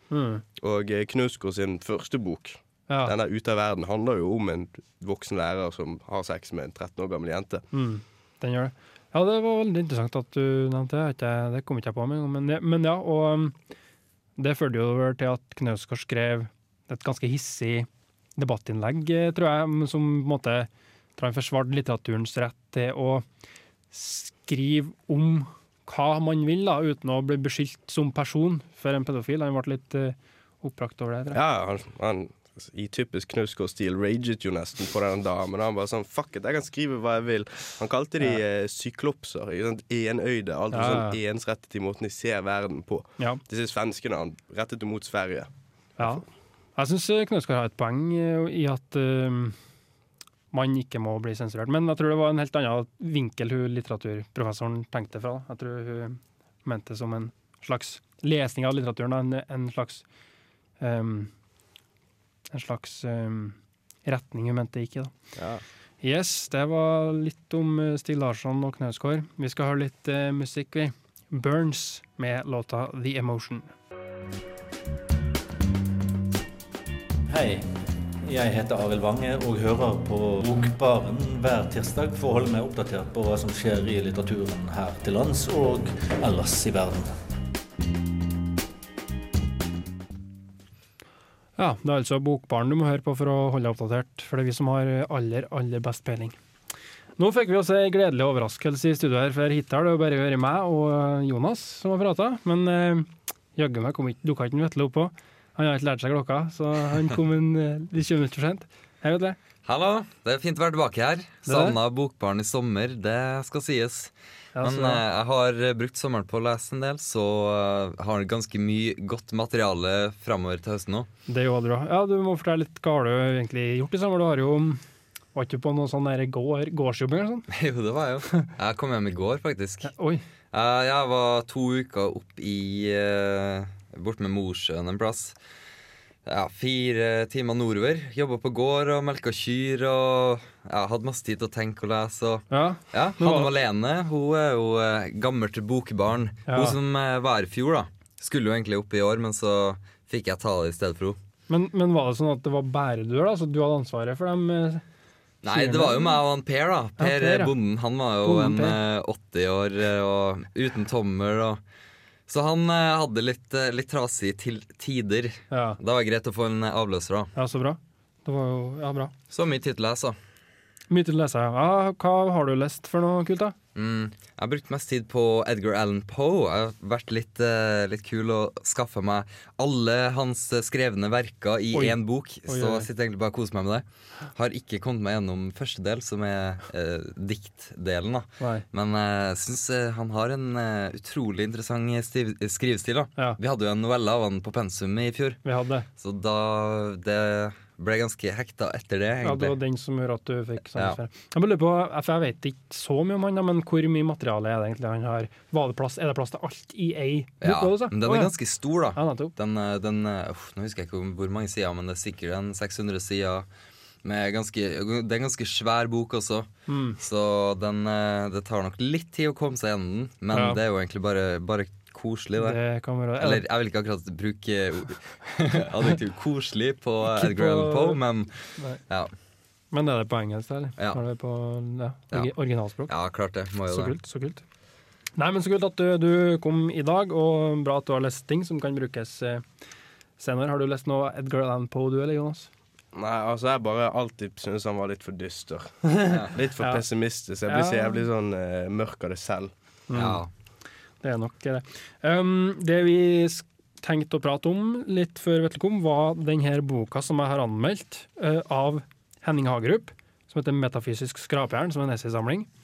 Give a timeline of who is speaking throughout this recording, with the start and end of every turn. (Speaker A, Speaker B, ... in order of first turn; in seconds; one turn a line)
Speaker A: 0.1-0.4
Speaker B: 0.6-7.6
Speaker A: 2.9-3.1
Speaker A: 7.7-13.6
Speaker A: 14.4-23.2
Speaker A: 23.9-31.4
Speaker B: 31.3-46.2
Speaker A: 40.7-41.2
Speaker A: 46.0-46.2
Speaker A: 46.8-49.6
Speaker A: 50.5-60.0
Speaker A: 60.8-61.3
Speaker A: 62.5-65.1
Speaker B: 65.3-65.6
Speaker A: 66.0-73.7
Speaker C: 77.3-87.2
Speaker A: 91.6-96.3
Speaker A: 97.2-109.4
Speaker D: 109.6-121.1
Speaker A: 111.4-111.7
Speaker A: 114.5-115.0
Speaker A: 121.3-124.8
Speaker A: 125.3-127.5
Speaker D: 127.5-129.9
Speaker A: 129.8-130.2
Speaker D: 130.5-135.3
Speaker D: 136.2-151.2
Speaker A: 142.5-143.5
Speaker A: 146.5-146.8
Speaker A: 151.5-154.8
Speaker D: 155.4-161.6
Speaker A: 155.5-156.1
Speaker A: 157.0-157.5
Speaker A: 158.2-158.8
Speaker D: 162.3-167.3
Speaker A: 165.5-165.8
Speaker A: 167.3-169.1
Speaker D: 169.3-170.2
Speaker A: 170.9-173.5
Speaker D: 173.7-195.4
Speaker A: 181.7-182.9
Speaker A: 188.4-188.6
Speaker A: 195.4-195.8
Speaker D: 196.0-199.6
Speaker A: 199.2-208.3
Speaker D: 207.4-213.4
Speaker A: 208.9-209.3
Speaker D: 214.0-222.6
Speaker A: 216.7-217.0
Speaker A: 220.3-220.6
Speaker A: 222.4-223.4
Speaker D: 223.2-229.1
Speaker A: 227.0-228.0
Speaker A: 229.7-232.9
Speaker D: 232.9-233.9
Speaker A: 233.7-234.4
Speaker A: 235.1-239.4
Speaker A: 240.2-242.5
Speaker B: 242.9-249.5
Speaker A: 246.0-246.8
Speaker A: 247.5-248.0
Speaker A: 249.9-250.2
Speaker D: 249.9-250.3
Speaker A: 251.0-262.5